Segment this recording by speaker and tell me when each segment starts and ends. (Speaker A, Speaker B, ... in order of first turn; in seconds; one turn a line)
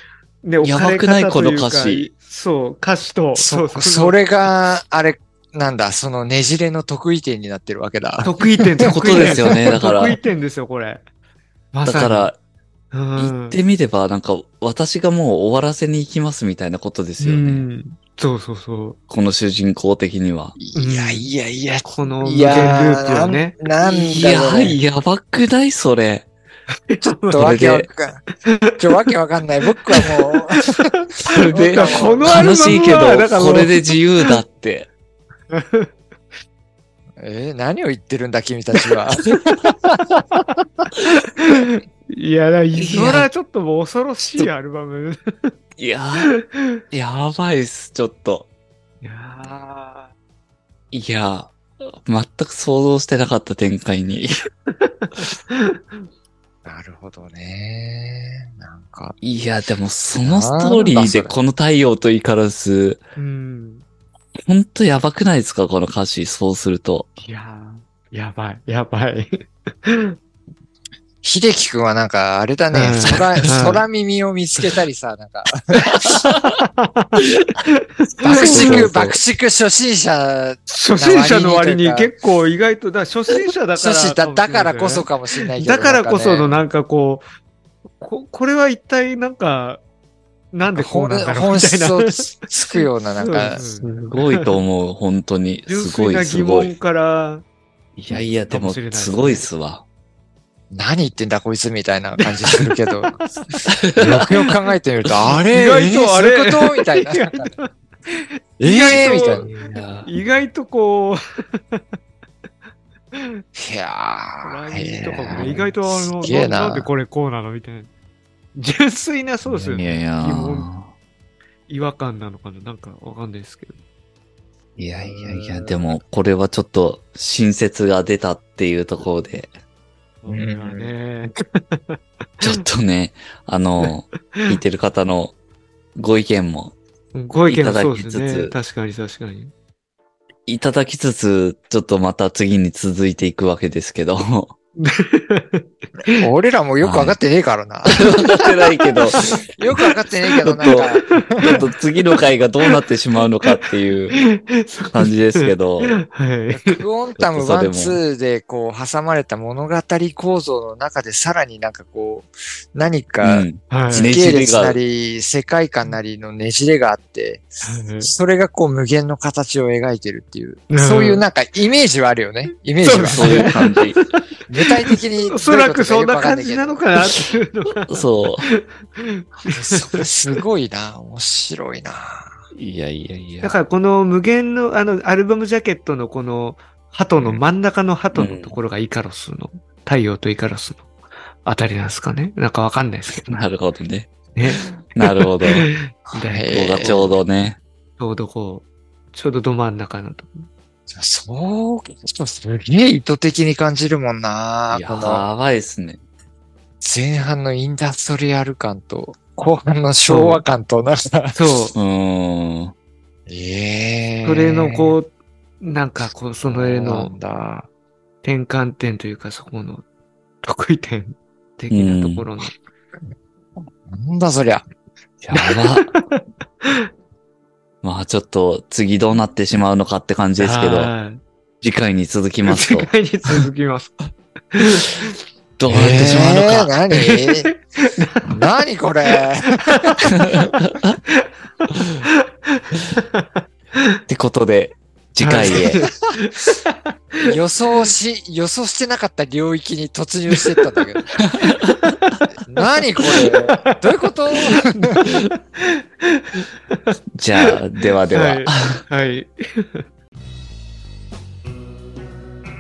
Speaker A: 0.4-4.2
Speaker B: 0.6-2.1
Speaker C: 3.4-9.8
Speaker A: 8.2-11.0
Speaker B: 8.9-10.2
Speaker A: 11.7-12.3
Speaker B: 11.8-12.4
Speaker A: 12.9-13.6
Speaker B: 13.2-17.7
Speaker A: 17.2-19.0
Speaker B: 19.1-20.6
Speaker C: 20.6-24.8
Speaker A: 20.8-21.3
Speaker A: 21.9-24.6
Speaker B: 23.8-26.3
Speaker A: 26.9-27.7
Speaker C: 27.0-28.2
Speaker B: 27.4-27.9
Speaker A: 28.3-29.1
Speaker C: 28.8-30.8
Speaker A: 29.7-34.4
Speaker B: 31.2-34.9
Speaker C: 31.5-32.7
Speaker A: 35.5-35.9
Speaker C: 37.2-40.0
Speaker A: 41.0-45.5
Speaker B: 42.7-43.3
Speaker B: 45.8-46.3
Speaker A: 46.2-46.8
Speaker B: 46.9-48.5
Speaker A: 49.0-50.1
Speaker B: 50.9-54.4
Speaker A: 54.7-56.0
Speaker C: 56.6-59.2
Speaker B: 59.2-63.0
Speaker C: 60.2-61.4
Speaker A: 63.2-63.9
Speaker B: 64.5-67.1
Speaker A: 67.2-70.2
Speaker C: 71.2-76.4
Speaker A: 72.7-73.8
Speaker B: 76.0-76.4
Speaker A: 76.1-78.9
Speaker C: 78.2-82.1
Speaker B: 78.3-79.2
Speaker A: 80.7-85.1
Speaker C: 83.8-86.6
Speaker A: 85.6-87.3
Speaker A: 88.0-89.8
Speaker A: 90.5-94.5
Speaker C: 90.7-93.6
Speaker B: 93.8-96.7
Speaker A: 95.7-97.5
Speaker B: 98.0-99.8
Speaker A: 98.5-99.5
Speaker C: 100.7-103.2
Speaker B: 103.7-104.2
Speaker C: 104.0-107.5
Speaker A: 105.5-111.8
Speaker C: 108.6-109.5
Speaker B: 108.9-110.1
Speaker A: 113.1-113.4
Speaker C: 113.5-116.9
Speaker A: 114.4-117.9
Speaker B: 115.4-115.7
Speaker A: 118.5-120.7
Speaker B: 119.5-120.9
Speaker A: 121.7-123.8
Speaker B: 124.8-129.5
Speaker C: 125.0-125.8
Speaker A: 130.2-132.6
Speaker C: 130.3-130.9
Speaker B: 132.4-135.3
Speaker A: 133.8-134.6
Speaker B: 136.0-136.8
Speaker A: 137.1-139.5
Speaker B: 137.5-138.5
Speaker B: 140.5-144.5
Speaker A: 144.8-146.2
Speaker C: 146.1-148.5
Speaker B: 146.8-147.2
Speaker B: 147.9-149.3
Speaker A: 149.2-149.9
Speaker C: 149.4-151.6
Speaker B: 150.5-154.2
Speaker A: 151.1-152.2
Speaker A: 154.1-156.8
Speaker B: 154.9-156.0
Speaker C: 156.5-173.5
Speaker B: 157.2-158.0
Speaker B: 163.2-164.8
Speaker A: 163.7-164.2
Speaker A: 167.7-168.1
Speaker A: 170.7-171.2
Speaker A: 172.8-180.1
Speaker B: 173.1-174.0
Speaker C: 174.5-176.8
Speaker B: 177.9-178.5
Speaker C: 179.5-182.3
Speaker B: 182.5-183.6
Speaker A: 183.4-190.9
Speaker B: 188.1-188.6
Speaker A: 191.4-193.3
Speaker B: 193.2-194.1
Speaker A: 194.3-197.2
Speaker B: 194.9-195.7
Speaker C: 196.2-197.2
Speaker B: 196.5-197.6
Speaker A: 198.0-200.5
Speaker C: 200.9-205.2
Speaker B: 204.7-206.0
Speaker C: 206.8-211.4
Speaker A: 210.1-210.4
Speaker A: 211.3-211.8
Speaker B: 211.7-212.8
Speaker C: 213.3-215.0
Speaker A: 214.2-217.1
Speaker C: 216.5-217.7
Speaker A: 218.2-219.8
Speaker A: 220.4-222.5
Speaker B: 221.7-222.3
Speaker C: 223.9-224.7
Speaker B: 225.2-225.9
Speaker A: 225.4-226.9
Speaker B: 227.8-230.9
Speaker A: 230.4-231.2
Speaker B: 231.6-233.5
Speaker A: 232.4-234.0
Speaker A: 234.5-235.2
Speaker B: 235.6-236.7
Speaker C: 235.7-237.5
Speaker A: 236.9-238.6
Speaker C: 238.3-240.5
Speaker A: 239.1-240.6
Speaker B: 240.0-241.0
Speaker A: 241.1-244.0
Speaker B: 241.7-242.0
Speaker B: 244.1-245.9
Speaker A: 245.2-247.4
Speaker C: 247.2-251.2
Speaker A: 250.3-250.9
Speaker B: 251.2-252.2
Speaker A: 251.7-257.6
Speaker C: 252.5-255.1
Speaker B: 257.2-258.8
Speaker A: 258.1-259.9